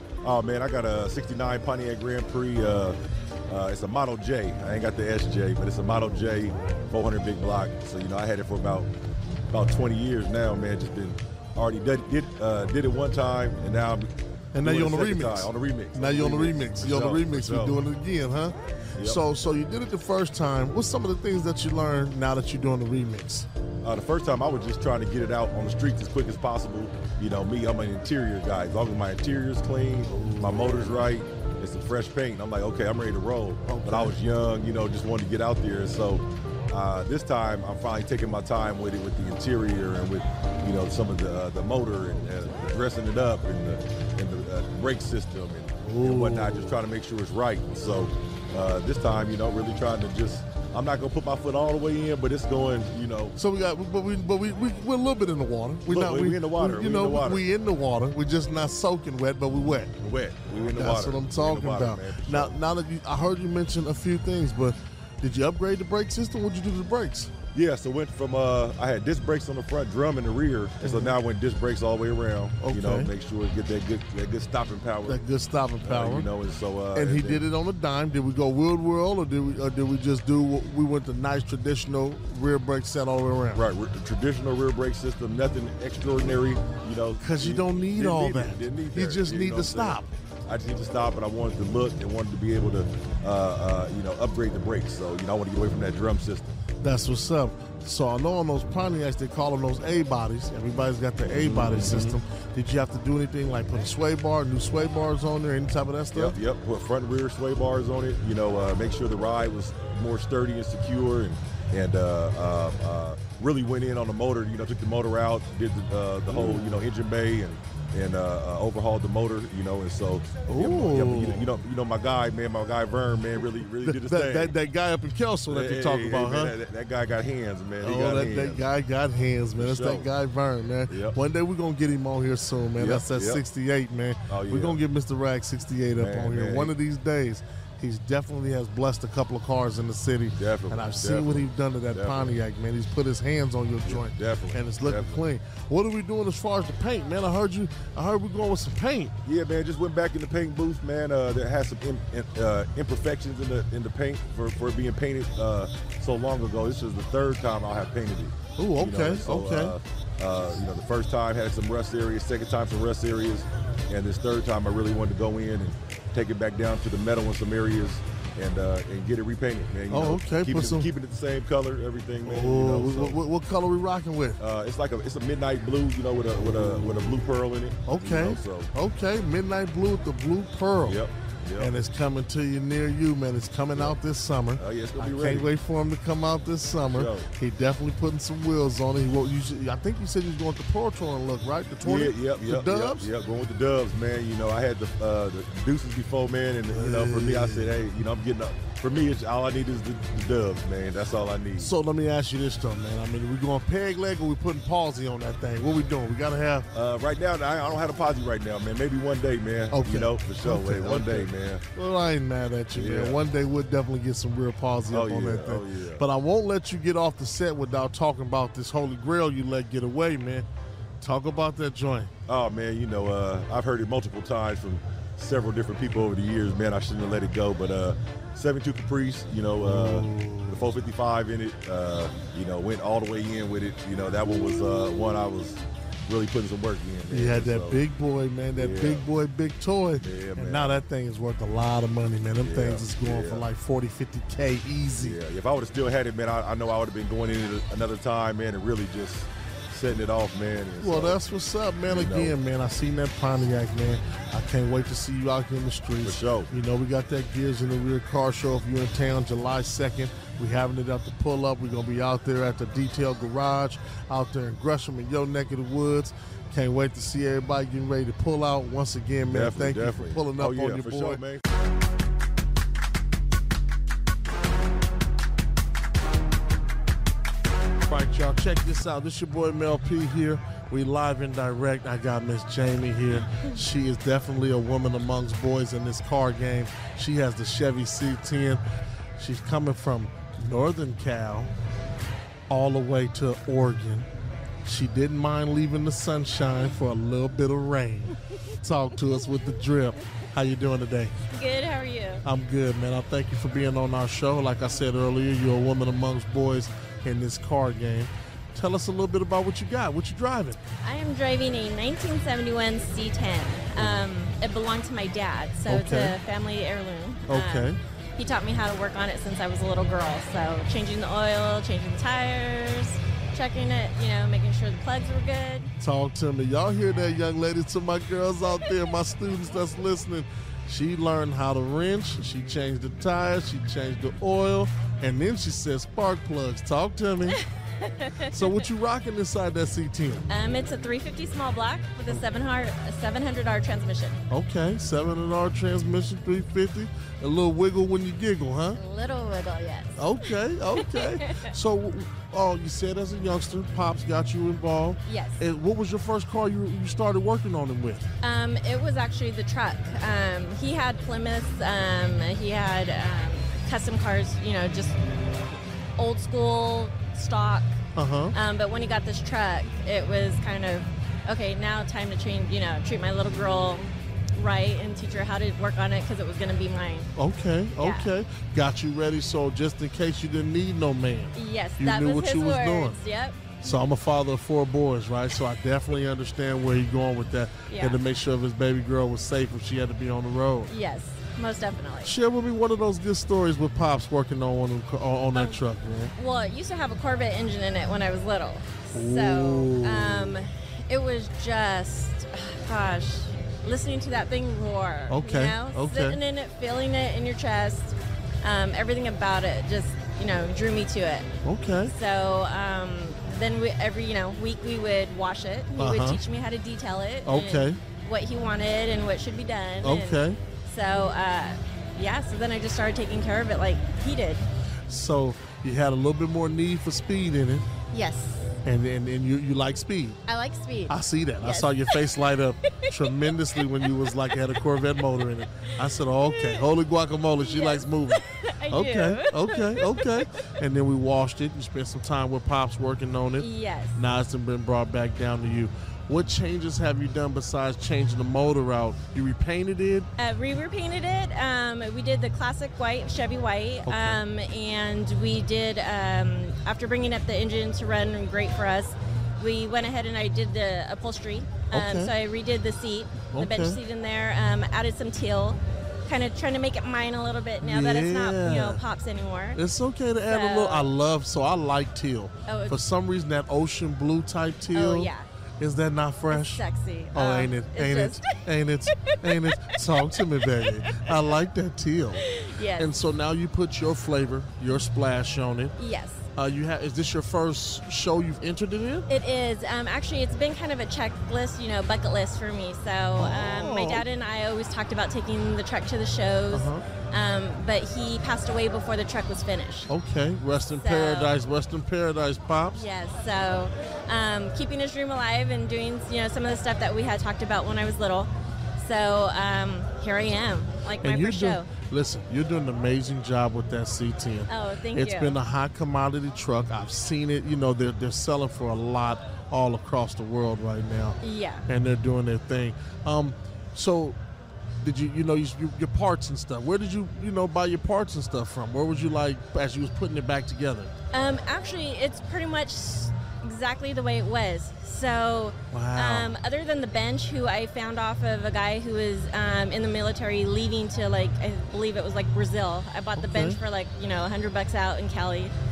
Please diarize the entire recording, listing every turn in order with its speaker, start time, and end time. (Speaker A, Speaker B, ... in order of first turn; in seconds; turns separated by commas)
Speaker A: 0.2-3.0, Speaker A: 3.5-8.9, Speaker A: 9.5-14.1, Speaker B: 14.5-23.5, Speaker A: 14.6-17.8, Speaker A: 23.8-53.4, Speaker B: 30.1-31.0, Speaker B: 33.7-34.2, Speaker B: 45.8-46.7, Speaker B: 53.4-60.0, Speaker A: 55.9-57.4, Speaker A: 60.0-62.5, Speaker B: 60.5-67.3, Speaker A: 67.5-75.2, Speaker B: 70.8-71.2, Speaker B: 72.6-73.1, Speaker B: 75.1-76.3, Speaker A: 75.8-77.4, Speaker B: 77.0-83.6, Speaker A: 83.5-96.5, Speaker B: 87.2-90.1, Speaker B: 96.8-106.4, Speaker A: 101.2-102.2, Speaker A: 106.1-124.5, Speaker B: 116.3-116.8, Speaker B: 120.5-121.5, Speaker B: 123.8-126.5, Speaker A: 125.5-128.6, Speaker B: 127.8-149.2, Speaker A: 129.6-130.1, Speaker A: 130.9-131.2, Speaker A: 132.8-133.4, Speaker A: 134.3-134.8, Speaker A: 136.0-136.7, Speaker A: 140.3-142.3, Speaker A: 143.9-145.2, Speaker A: 149.2-173.2, Speaker B: 158.6-159.8, Speaker B: 169.9-170.9, Speaker B: 172.2-174.4, Speaker A: 174.4-178.7, Speaker B: 177.9-181.0, Speaker A: 180.8-181.7, Speaker B: 181.6-193.1, Speaker A: 184.6-185.5, Speaker A: 186.9-187.3, Speaker A: 191.8-201.7, Speaker B: 196.7-197.7, Speaker B: 201.6-206.7, Speaker A: 206.7-211.6, Speaker B: 209.7-220.5, Speaker A: 212.7-213.2, Speaker A: 214.9-216.0, Speaker B: 221.0-222.1, Speaker A: 222.3-237.8, Speaker B: 229.6-230.8, Speaker B: 237.1-245.2, Speaker A: 238.6-239.1, Speaker A: 240.0-240.8, Speaker A: 242.4-243.4, Speaker A: 245.0-251.2, Speaker B: 250.8-271.2, Speaker A: 251.9-252.3, Speaker A: 256.0-256.5, Speaker A: 269.3-271.4, Speaker B: 277.8-288.6, Speaker B: 289.2-291.5, Speaker B: 292.5-294.1, Speaker B: 294.6-301.1, Speaker C: 301.3-302.2, Speaker B: 302.2-310.6, Speaker C: 310.8-325.7, Speaker B: 315.7-316.2, Speaker B: 317.3-317.8, Speaker B: 325.8-337.4, Speaker C: 337.8-338.6, Speaker B: 338.3-340.3, Speaker C: 340.3-344.2, Speaker B: 344.3-348.8, Speaker C: 348.8-351.5, Speaker B: 350.0-358.1, Speaker C: 355.1-355.4, Speaker C: 358.2-365.0, Speaker C: 366.0-367.8, Speaker B: 368.0-368.4, Speaker C: 368.3-377.1, Speaker B: 377.2-383.0, Speaker C: 377.8-378.1, Speaker C: 381.3-383.6, Speaker B: 383.6-390.7, Speaker C: 387.7-388.0, Speaker C: 390.7-392.1, Speaker B: 392.0-396.1, Speaker C: 395.3-395.6, Speaker C: 396.2-411.3, Speaker B: 398.9-400.4, Speaker B: 405.1-406.2, Speaker B: 411.4-411.9, Speaker C: 411.8-424.5, Speaker B: 415.8-416.2, Speaker B: 417.3-417.8, Speaker B: 419.8-420.4, Speaker B: 424.9-427.7, Speaker C: 427.9-428.6, Speaker B: 428.6-430.2, Speaker C: 430.3-432.0, Speaker B: 430.9-450.1, Speaker C: 432.8-434.4, Speaker C: 436.3-436.6, Speaker C: 437.4-440.5, Speaker C: 443.4-444.0, Speaker C: 450.2-469.6, Speaker B: 453.9-454.2, Speaker B: 461.7-462.1, Speaker B: 463.3-463.8, Speaker B: 467.6-468.8, Speaker B: 469.5-482.3, Speaker C: 470.3-470.9, Speaker C: 472.5-472.8, Speaker C: 474.7-475.3, Speaker C: 476.3-478.4, Speaker C: 479.0-479.8, Speaker C: 480.5-481.3, Speaker C: 482.2-482.9, Speaker B: 482.8-485.8, Speaker C: 485.8-486.3, Speaker B: 486.4-489.1, Speaker C: 489.1-499.9, Speaker B: 493.2-494.0, Speaker B: 496.5-496.8, Speaker B: 499.9-502.9, Speaker C: 500.8-501.3, Speaker C: 502.7-511.7, Speaker B: 511.0-524.2, Speaker C: 514.5-515.4, Speaker C: 521.2-521.7, Speaker B: 524.8-530.9, Speaker C: 531.1-545.5, Speaker B: 535.7-536.4, Speaker B: 543.2-543.6